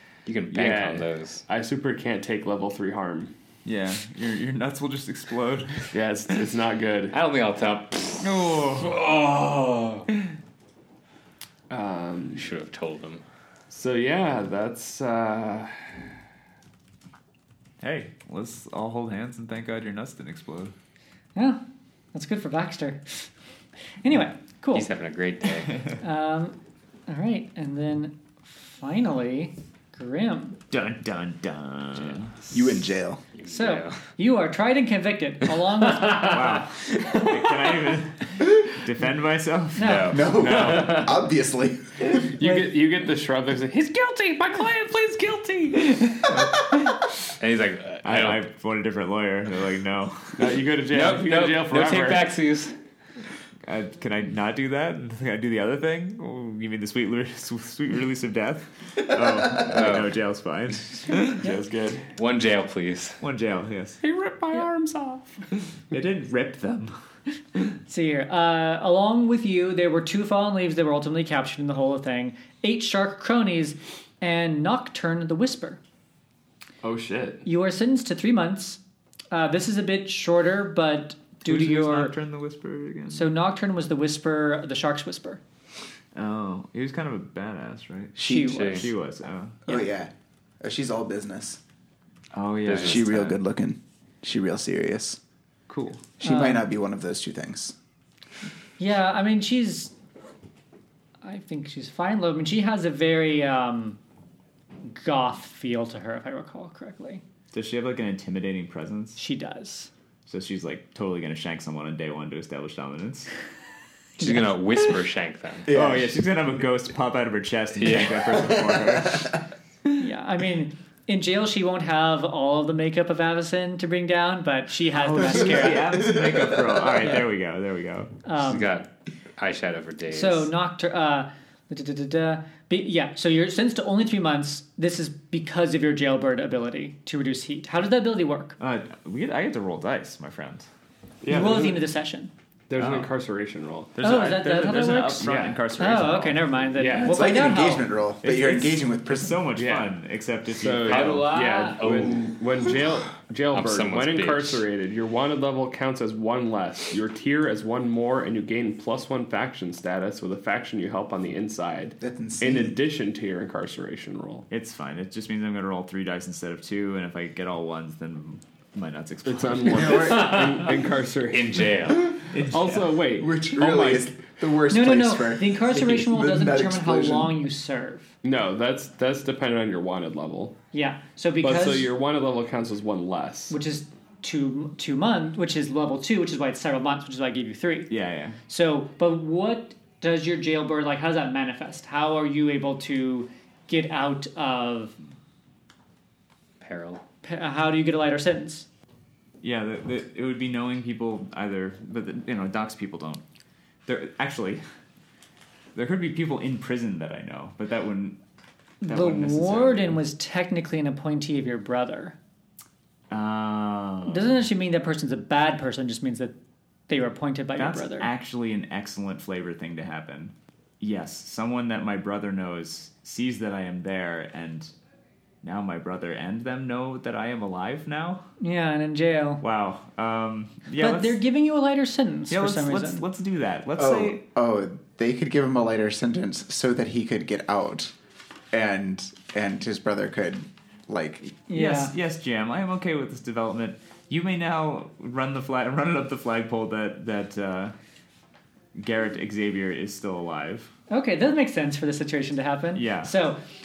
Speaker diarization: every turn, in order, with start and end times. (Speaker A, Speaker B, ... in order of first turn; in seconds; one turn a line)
Speaker A: 0.2-1.4
Speaker B: 0.5-3.3
Speaker C: 3.6-5.9
Speaker B: 5.9-7.2
Speaker A: 7.1-10.1
Speaker C: 8.2-9.0
Speaker B: 11.7-12.5
Speaker A: 12.3-13.2
Speaker B: 13.7-15.9
Speaker C: 17.8-20.7
Speaker D: 21.3-21.6
Speaker D: 22.1-23.3
Speaker D: 24.0-24.9
Speaker A: 24.7-25.8
Speaker D: 26.0-30.6
Speaker C: 30.7-32.5
Speaker E: 32.5-33.2
Speaker A: 33.4-34.0
Speaker D: 33.5-36.6
Speaker C: 36.1-40.2
Speaker D: 39.8-40.2
Speaker A: 39.8-41.2
Speaker E: 40.1-42.2
Speaker B: 40.4-41.1
Speaker B: 42.1-46.1
Speaker D: 42.4-42.7
Speaker C: 46.0-47.0
Speaker A: 47.4-48.4
Speaker C: 48.0-50.5
Speaker B: 50.3-52.3
Speaker A: 50.9-52.7
Speaker C: 53.6-61.5
Speaker A: 59.6-60.1
Speaker B: 61.4-62.1
Speaker A: 62.1-63.2
Speaker C: 63.2-64.0
Speaker B: 64.0-65.4
Speaker C: 65.9-67.0
Speaker D: 67.9-75.8
Speaker B: 76.8-77.4
Speaker D: 77.4-82.1
Speaker C: 81.4-83.3
Speaker D: 83.1-85.4
Speaker C: 86.1-89.6
Speaker D: 88.2-88.9
Speaker E: 88.2-88.8
Speaker A: 88.4-88.9
Speaker E: 89.7-91.6
Speaker C: 92.3-93.4
Speaker A: 92.6-93.1
Speaker E: 92.8-95.2
Speaker C: 95.7-96.1
Speaker D: 96.2-96.6
Speaker E: 96.2-97.7
Speaker D: 98.8-99.9
Speaker D: 101.2-104.0
Speaker D: 104.8-107.2
Speaker C: 107.5-109.2
Speaker D: 109.2-109.9
Speaker C: 110.2-113.3
Speaker A: 114.2-115.7
Speaker E: 115.7-116.2
Speaker C: 115.7-119.3
Speaker A: 117.8-118.3
Speaker E: 118.5-119.3
Speaker D: 120.0-125.9
Speaker C: 124.9-128.2
Speaker E: 125.3-127.0
Speaker D: 128.2-128.7
Speaker A: 128.3-130.5
Speaker D: 130.1-138.6
Speaker C: 138.6-140.7
Speaker B: 141.2-141.8
Speaker D: 141.3-142.3
Speaker B: 142.7-143.9
Speaker C: 142.8-143.1
Speaker C: 143.9-146.5
Speaker D: 144.0-147.9
Speaker B: 145.2-145.6
Speaker B: 146.8-147.3
Speaker E: 147.0-149.4
Speaker C: 148.2-151.3
Speaker B: 149.5-149.9
Speaker B: 150.5-164.5
Speaker A: 150.8-152.3
Speaker A: 153.5-154.6
Speaker E: 162.0-162.8
Speaker C: 164.5-170.2
Speaker B: 169.2-174.1
Speaker E: 169.7-170.6
Speaker A: 170.0-170.6
Speaker A: 171.3-172.2
Speaker C: 172.3-173.7
Speaker E: 173.2-177.4
Speaker D: 174.7-178.1
Speaker B: 178.2-180.6
Speaker D: 180.7-181.9
Speaker B: 181.4-183.6
Speaker D: 183.5-187.9
Speaker C: 187.9-188.4
Speaker D: 188.5-195.0
Speaker A: 196.6-197.0
Speaker D: 197.2-198.7
Speaker C: 199.4-203.2
Speaker C: 203.8-204.6
Speaker C: 205.7-208.2
Speaker D: 208.8-212.2
Speaker C: 208.8-210.0
Speaker C: 213.1-214.3
Speaker D: 214.1-216.3
Speaker D: 216.9-218.1
Speaker C: 217.6-224.7
Speaker C: 225.4-228.2
Speaker D: 228.4-229.4
Speaker C: 229.4-231.2
Speaker D: 230.8-233.1
Speaker C: 232.3-234.2
Speaker E: 233.8-237.9
Speaker E: 238.5-241.3
Speaker D: 241.5-241.9
Speaker C: 241.5-247.7
Speaker C: 248.7-250.7
Speaker D: 250.9-253.4
Speaker C: 252.7-253.1